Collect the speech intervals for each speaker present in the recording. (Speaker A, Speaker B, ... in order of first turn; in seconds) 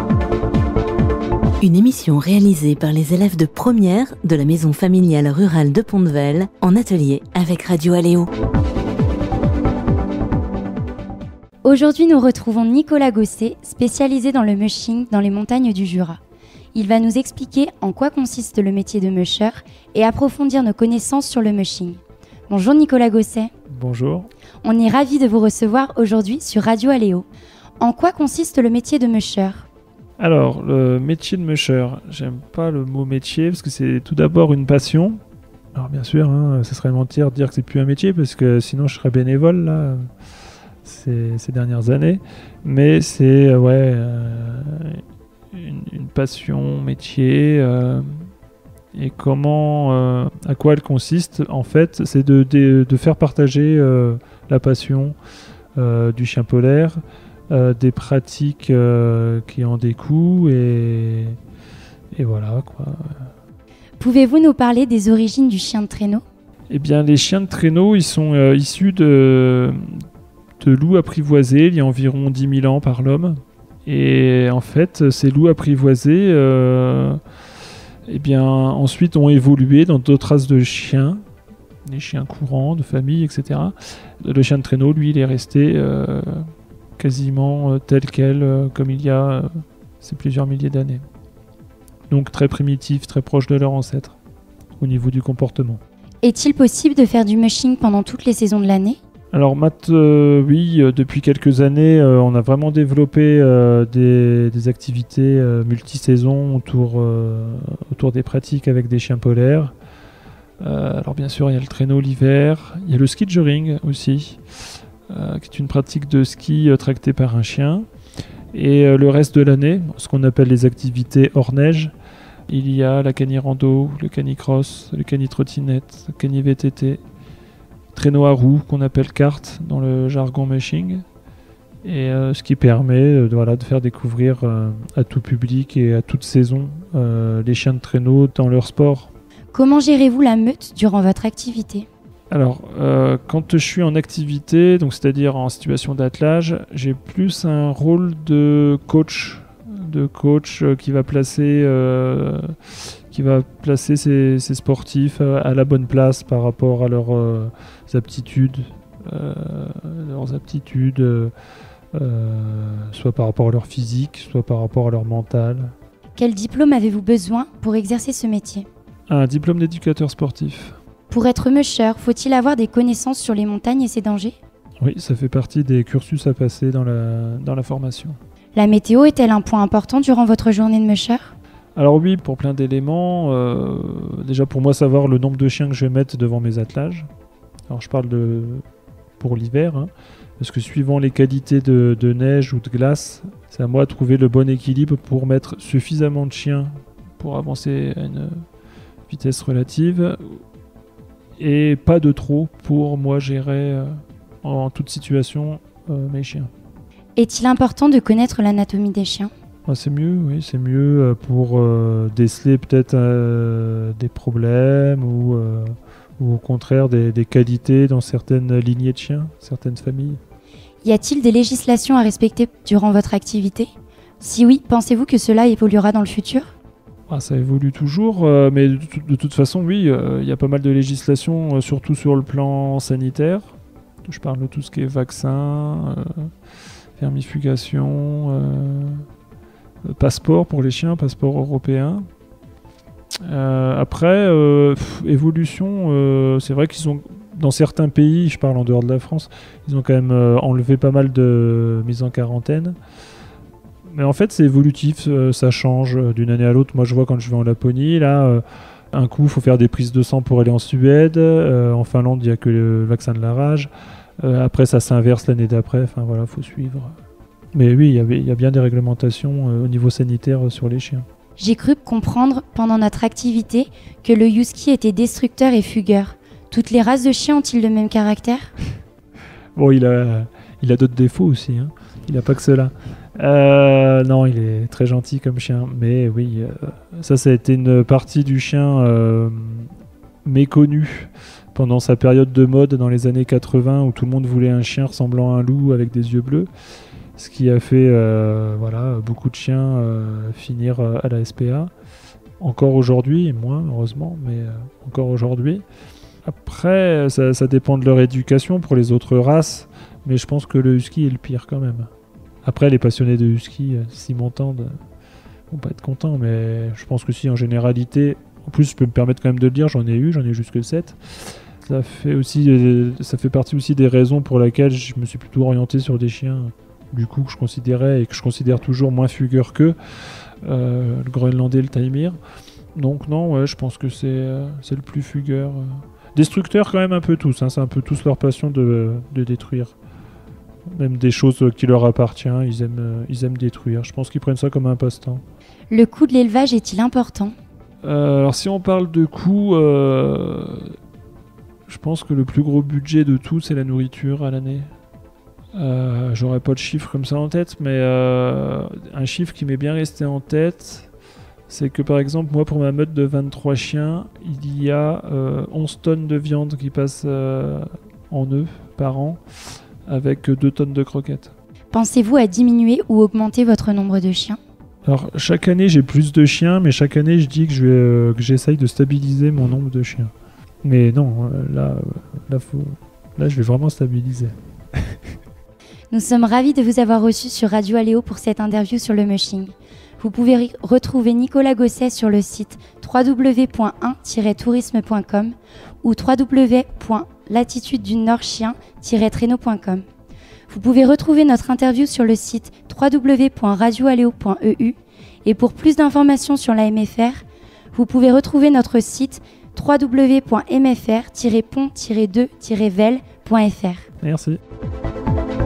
Speaker A: 1.6-8.3
Speaker B: 11.6-16.2, 16.7-23.5, 24.6-27.3, 27.8-29.7, 64.0-66.2, 96.2-99.0, 139.5-141.9, 166.2-168.7, 171.1-174.4, 178.6-181.3, 207.2-209.3, 220.8-226.5, 271.4-278.5, 345.7-347.3, 371.7-374.4, 385.9-399.9, 400.5-413.9
Speaker C: 23.7-24.3, 30.2-35.2, 35.8-40.0, 40.8-48.3, 48.9-55.2, 55.8-57.0, 57.5-61.4, 62.1-63.3, 66.7-69.8, 70.6-77.2, 78.1-81.2, 81.8-86.4, 87.0-89.5, 90.0-91.0, 92.1-94.2, 94.8-95.8, 99.3-109.7, 110.6-114.4, 115.1-117.9, 118.5-121.9, 122.5-127.0, 127.9-131.0, 131.8-139.1, 142.3-161.3, 161.9-165.7, 169.1-170.8, 174.8-178.2, 181.8-187.1, 187.7-188.6, 189.2-198.3, 199.1-200.4, 201.4-206.5, 209.7-220.2, 227.1-236.3, 237.0-239.1, 239.9-242.1, 243.3-252.8, 253.9-263.7, 264.2-266.9, 267.5-271.1, 279.6-289.7, 290.2-296.5, 297.2-301.7, 302.4-305.6, 306.2-311.9, 312.4-314.7, 315.5-321.0, 321.6-329.8, 330.4-332.2, 332.8-339.8, 340.7-345.2, 347.8-350.7, 351.7-354.7, 355.6-360.9, 361.5-369.2, 369.9-371.3, 374.9-380.1, 380.6-384.8, 414.0-414.4